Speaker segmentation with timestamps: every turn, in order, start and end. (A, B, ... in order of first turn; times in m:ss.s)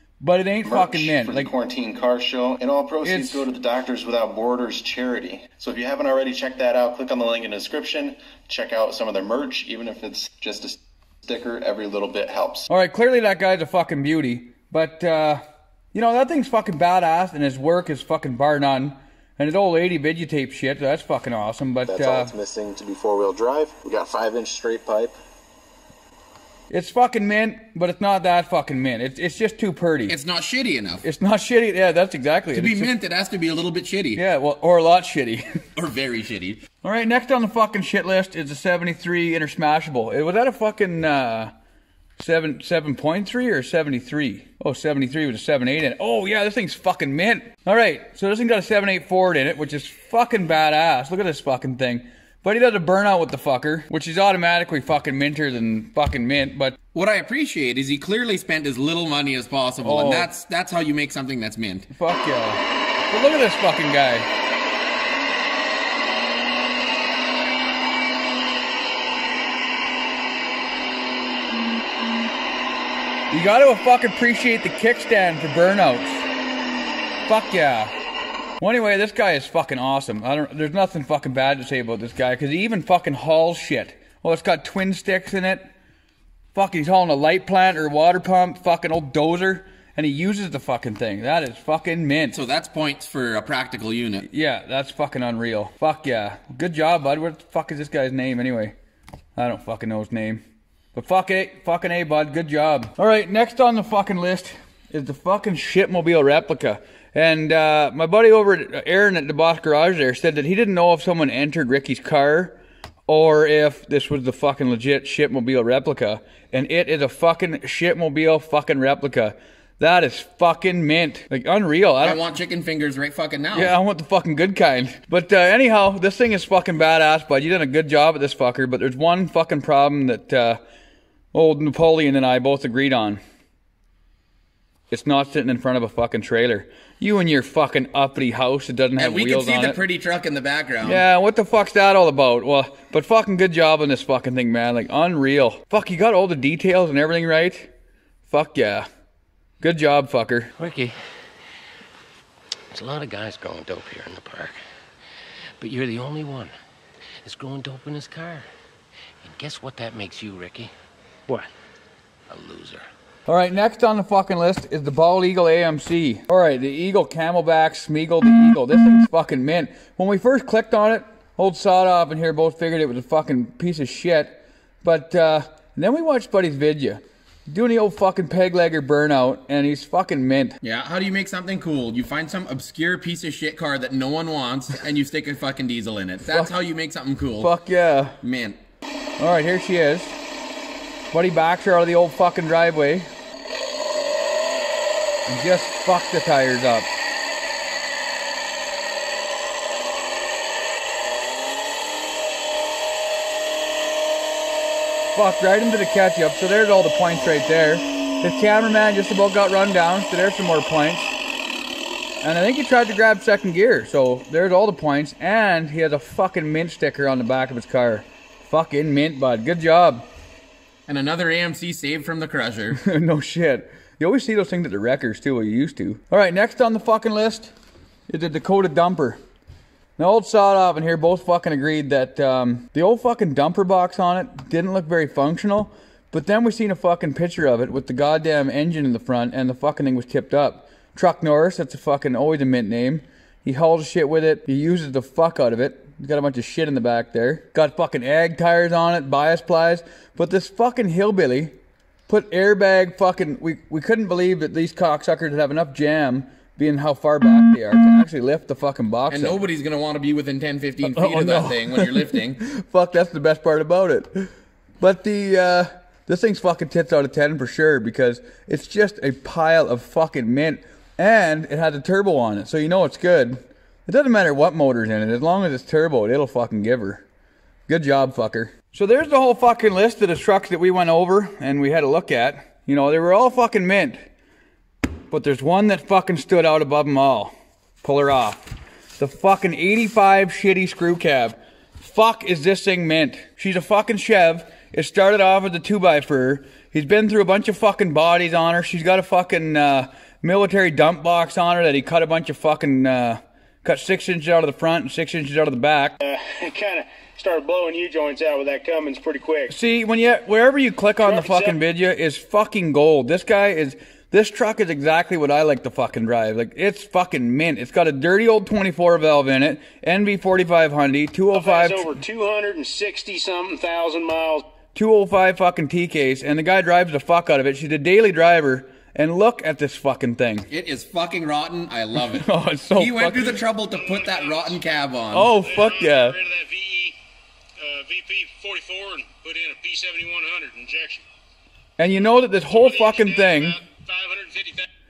0:00.2-0:01.5 A
0:00.6-0:12.7 B
0:03.0-0:03.5 A
0:12.7-0:22.3 A
0:21.9-0:25.2 B
0:26.7-0:30.2 A
0:30.1-0:31.0 C
0:31.0-0:32.9 A
0:32.5-0:34.2 C
0:34.2-0:35.4 A
0:35.8-0:36.6 C
0:36.8-0:41.5 A
0:42.2-0:56.8 A
0:56.9-1:01.9 C
0:59.8-1:00.3 A
1:01.9-1:04.3 A
1:13.3-1:16.2 A
1:17.3-1:17.9 A
1:18.6-1:25.7 A
1:26.5-1:32.4 A
1:32.3-1:34.3 C
1:34.2-1:38.8 A
1:39.4-1:40.4 A
1:40.9-2:02.2 A
2:02.0-2:03.8 C
2:03.5-2:10.6 A
2:11.3-2:13.2 A
2:14.9-2:19.8 A
2:19.0-2:21.0 C
2:20.8-2:27.7 A
2:28.3-2:28.9 A
2:29.6-2:30.5 A
2:30.6-2:30.9 D
2:32.7-2:34.6 D
2:35.6-2:36.5 D
2:37.2-2:38.5 D
2:39.2-2:40.7 D
2:42.3-2:42.8 D
2:43.3-3:00.6 A
3:00.6-3:07.5 C
3:06.3-3:06.5 A
3:07.4-3:08.2 A
3:08.2-3:08.6 C
3:09.2-3:10.2 A
3:11.1-3:13.1 A
3:15.3-3:16.9 A
3:25.1-3:31.1 A
3:32.2-3:40.1 A
3:40.9-3:42.8 C
3:42.7-3:47.5 A
3:48.1-3:49.2 A
3:50.0-4:11.6 A
4:12.1-4:19.4 A
4:19.1-4:22.4 C
4:20.8-4:37.0 A
4:37.7-4:44.1 A
4:45.1-5:06.0 A
5:06.0-5:09.5 E
5:09.5-5:22.0 A
5:11.0-5:11.6 E
5:21.3-5:24.5 E
5:24.7-5:30.5 A
5:30.5-5:35.3 C
5:32.0-5:33.5 A
5:33.7-5:34.6 E
5:35.1-5:36.2 A
5:35.4-5:37.0 E
5:37.6-5:41.1 E
5:41.8-5:43.6 A
5:42.5-5:44.7 E